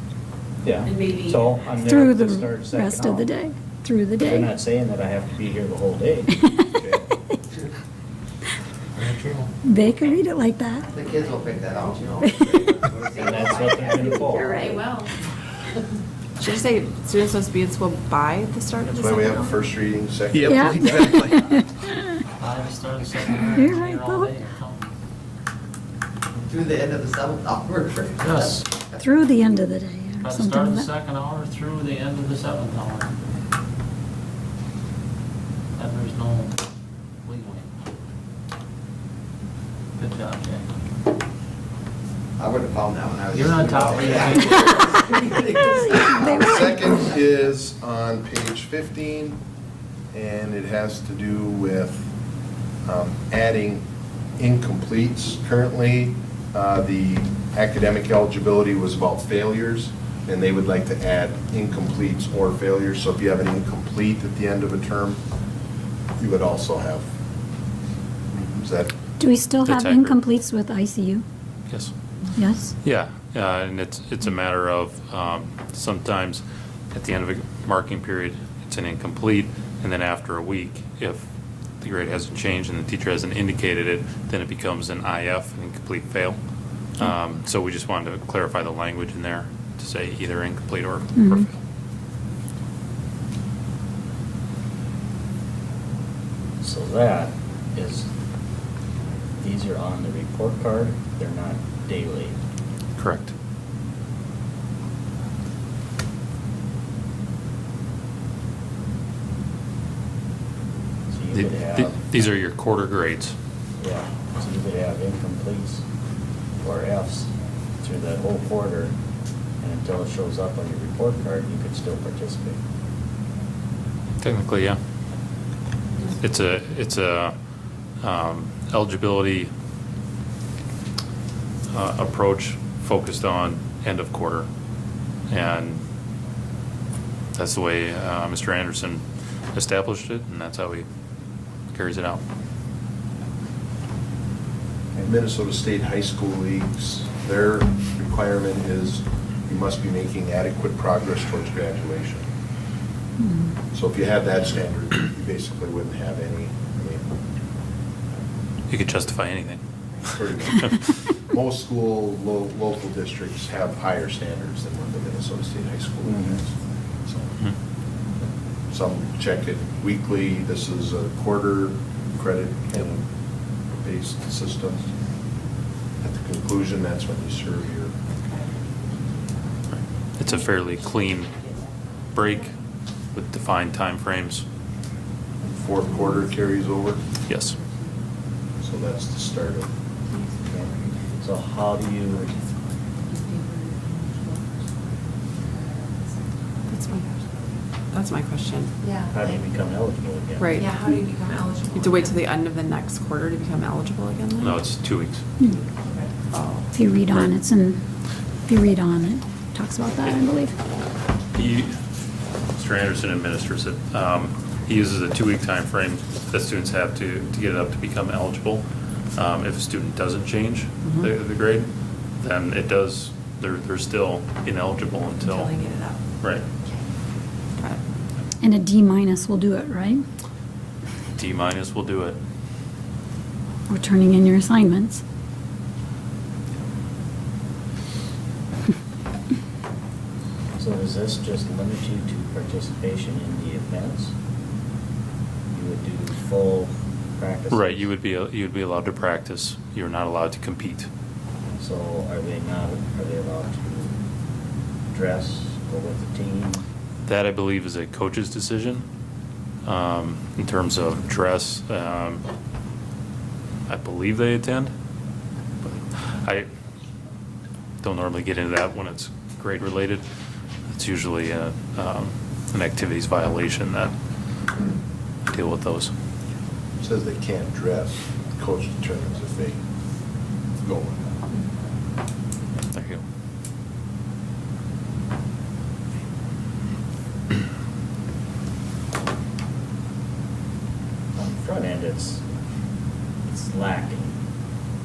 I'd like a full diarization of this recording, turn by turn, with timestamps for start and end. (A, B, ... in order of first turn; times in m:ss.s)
0:00.6-0:03.3 A
0:01.8-0:04.5 B
0:04.2-0:06.3 A
0:06.3-0:06.7 B
0:06.7-0:07.1 C
0:09.0-0:09.4 D
0:09.6-0:10.9 B
0:10.9-0:14.5 E
0:12.2-0:12.7 B
0:13.1-0:14.7 A
0:14.0-0:14.8 B
0:16.4-0:19.5 F
0:18.9-0:21.0 C
0:20.4-0:22.1 B
0:20.7-0:21.2 E
0:22.4-0:24.9 D
0:23.4-0:24.4 B
0:26.3-0:28.7 E
0:28.2-0:28.6 D
0:28.9-0:30.9 B
0:30.2-0:33.1 D
0:35.8-0:36.6 D
0:37.2-0:37.7 D
0:40.0-0:40.6 D
0:42.4-0:46.5 E
0:43.3-0:44.6 D
0:45.6-0:47.0 B
0:46.2-0:49.4 C
0:50.1-0:52.1 C
0:52.8-0:53.8 C
0:54.4-1:05.2 C
1:06.2-1:07.0 C
1:08.3-1:08.9 C
1:09.2-1:11.2 B
1:09.6-1:10.2 G
1:12.3-1:12.7 B
1:12.8-1:21.2 G
1:21.8-1:26.4 G
1:26.9-1:31.6 G
1:31.2-1:31.4 B
1:36.6-1:38.1 A
1:39.4-1:42.4 A
1:43.0-1:43.3 G
1:51.1-1:52.0 A
1:51.3-1:53.3 G
1:53.8-1:55.8 A
1:56.6-1:57.3 A
1:57.8-1:58.9 A
1:59.6-2:02.6 A
2:04.2-2:04.8 G
2:06.2-2:07.3 G
2:08.0-2:09.5 G
2:11.7-2:14.5 G
2:15.3-2:15.8 G
2:17.3-2:20.8 G
2:21.7-2:22.2 G
2:25.0-2:32.2 C
2:33.2-2:33.5 B
2:33.7-2:37.0 C
2:38.7-2:39.6 G
2:40.1-2:47.3 C
2:46.1-2:46.3 A
2:48.7-2:53.0 C
2:53.7-2:54.8 C
2:56.0-2:57.9 C
2:59.7-3:01.3 G
3:02.1-3:02.5 G
3:03.1-3:04.4 G
3:05.4-3:07.0 C
3:07.3-3:07.6 G
3:08.6-3:09.7 C
3:11.2-3:12.3 A
3:13.3-3:14.4 H
3:16.7-3:17.0 F
3:17.9-3:18.7 F
3:19.1-3:20.7 A
3:20.4-3:20.7 F
3:20.6-3:22.1 H
3:21.7-3:24.6 F
3:24.4-3:25.3 G
3:26.3-3:26.7 F
3:26.7-3:27.8 B
3:28.4-3:30.5 B
3:31.3-3:31.7 G
3:32.6-3:45.6 G
3:46.2-3:46.4 G
3:48.4-3:50.0 B
3:51.2-3:52.2 G
3:53.7-3:55.0 B
4:00.6-4:04.1 A
4:05.5-4:07.8 A
4:07.5-4:10.9 G
4:11.6-4:13.9 A
4:14.9-4:16.6 A
4:17.0-4:18.8 G
4:19.6-4:22.2 G
4:23.7-4:24.7 G
4:25.6-4:26.5 G
4:27.8-4:30.0 G
4:30.7-4:33.9 G
4:35.3-4:35.9 G
4:36.8-4:39.6 C
4:40.6-4:41.0 C
4:42.7-4:43.0 G
4:51.2-4:52.2 A
4:53.2-4:54.1 A